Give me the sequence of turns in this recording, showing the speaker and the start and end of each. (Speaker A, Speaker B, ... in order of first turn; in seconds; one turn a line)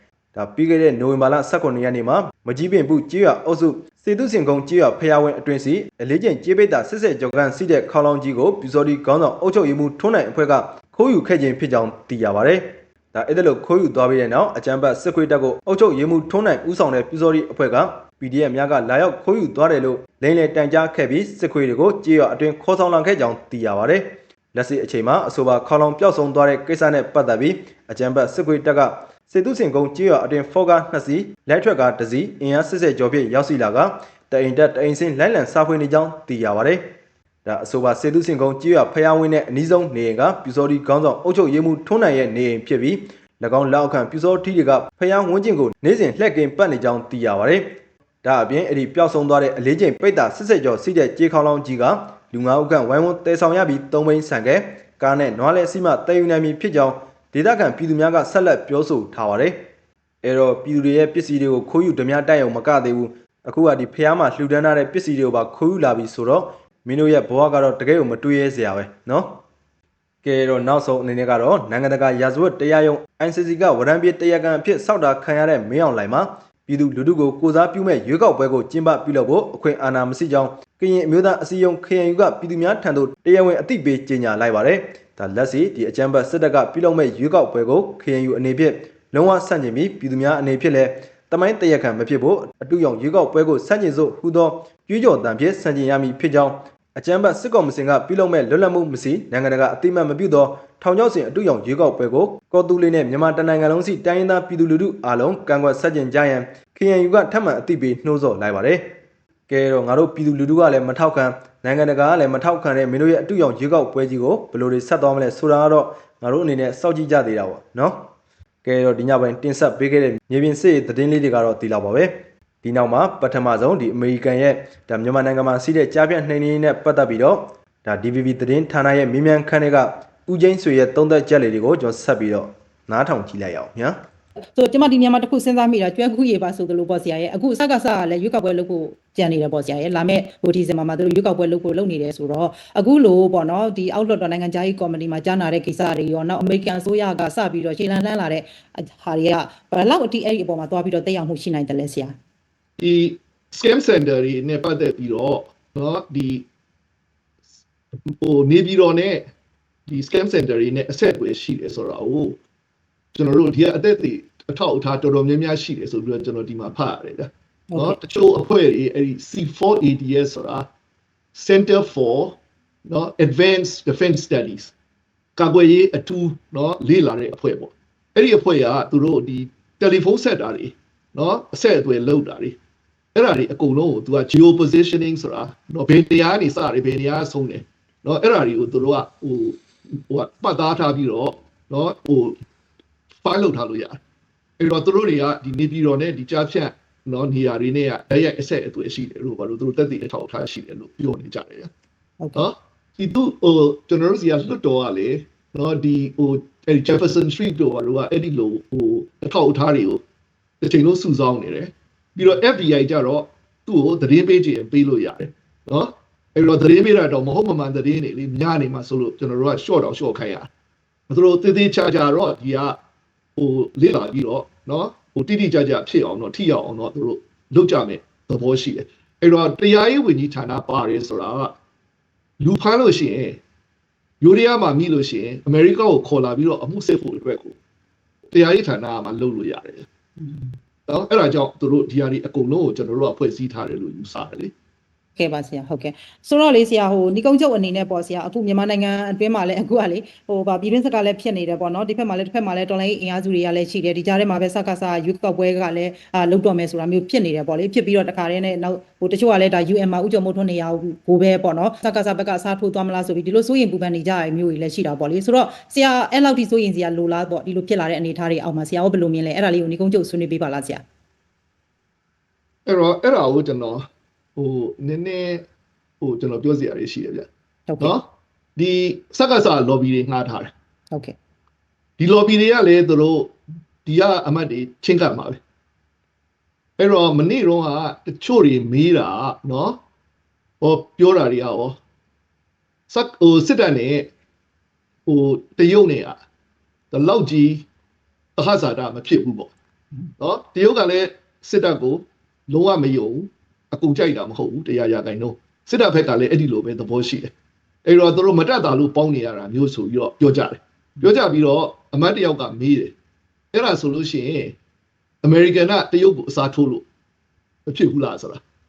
Speaker A: 0.3-36.9
Speaker A: 37.5-47.7
Speaker A: 48.2-59.6
Speaker A: 60.2-69.4
Speaker A: 70.2-108.9
Speaker A: 109.5-118.1
Speaker A: 118.6-134.0
Speaker B: 134.6-152.2
Speaker C: 152.8-156.5
Speaker C: 158.2-159.3
Speaker C: 159.9-162.4
Speaker C: 163.2-170.7
Speaker B: 167.7-168.0
Speaker C: 171.3-174.7
Speaker C: 175.4-182.6
Speaker C: 183.2-192.4
Speaker C: 193.2-194.0
Speaker C: 194.6-201.7
Speaker B: 202.2-202.5
Speaker C: 202.3-210.0
Speaker C: 210.6-220.5
Speaker C: 221.1-222.8
Speaker C: 223.4-231.6
Speaker C: 232.4-233.4
Speaker C: 234.2-237.6
Speaker C: 238.3-239.9
Speaker B: 240.2-240.5
Speaker C: 240.9-244.5
Speaker B: 245.2-270.8
Speaker C: 272.7-275.5
Speaker C: 276.0-277.3
Speaker B: 277.7-277.9
Speaker C: 277.8-280.5
Speaker C: 282.0-285.4
Speaker C: 286.8-289.8
Speaker C: 290.6-291.8
Speaker C: 292.9-294.1
Speaker C: 295.1-296.2
Speaker C: 296.9-297.6
Speaker C: 298.4-299.5
Speaker C: 300.2-307.3
Speaker C: 307.9-312.9
Speaker C: 313.5-314.6
Speaker C: 315.2-316.9
Speaker C: 317.7-318.4